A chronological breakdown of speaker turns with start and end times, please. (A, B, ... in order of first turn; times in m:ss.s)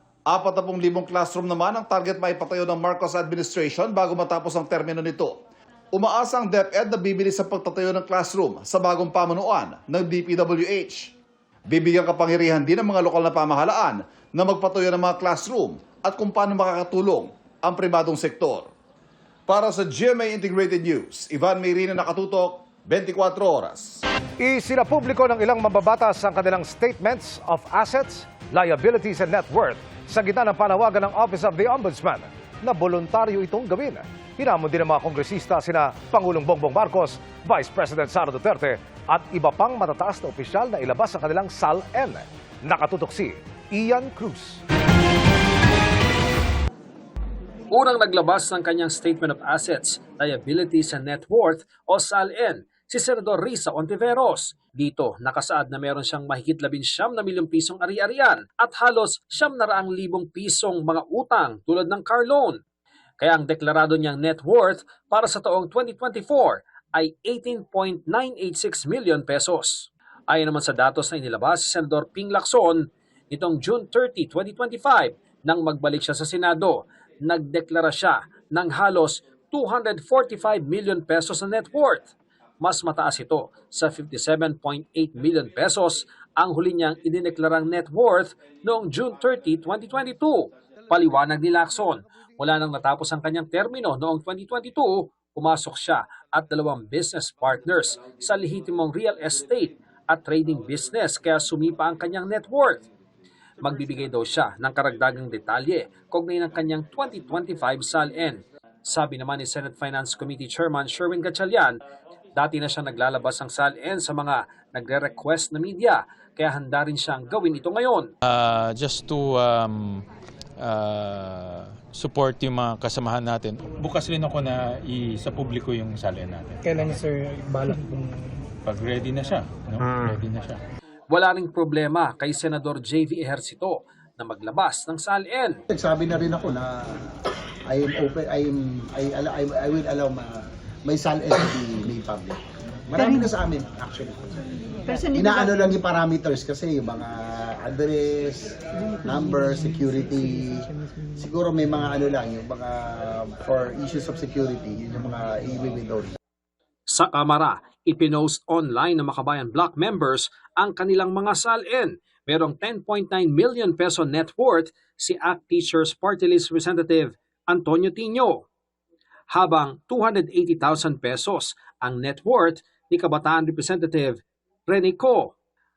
0:00.3-0:05.4 A
0:05.9-0:11.1 A
0:11.7-0:18.7 A
0:19.5-0:24.0 A
0:24.4-0:44.6 B
0:47.7-1:02.6 C
1:03.2-1:42.9 C
1:43.6-1:51.8 C
1:52.4-1:58.1 C
1:58.2-2:00.0 D
2:00.6-2:07.0 D
2:08.6-2:10.6 D
2:11.1-2:15.6 C
2:15.7-2:17.1 E
2:17.7-2:24.3 E
2:25.0-2:36.1 E
2:36.9-2:48.4 C
2:49.3-2:55.3 C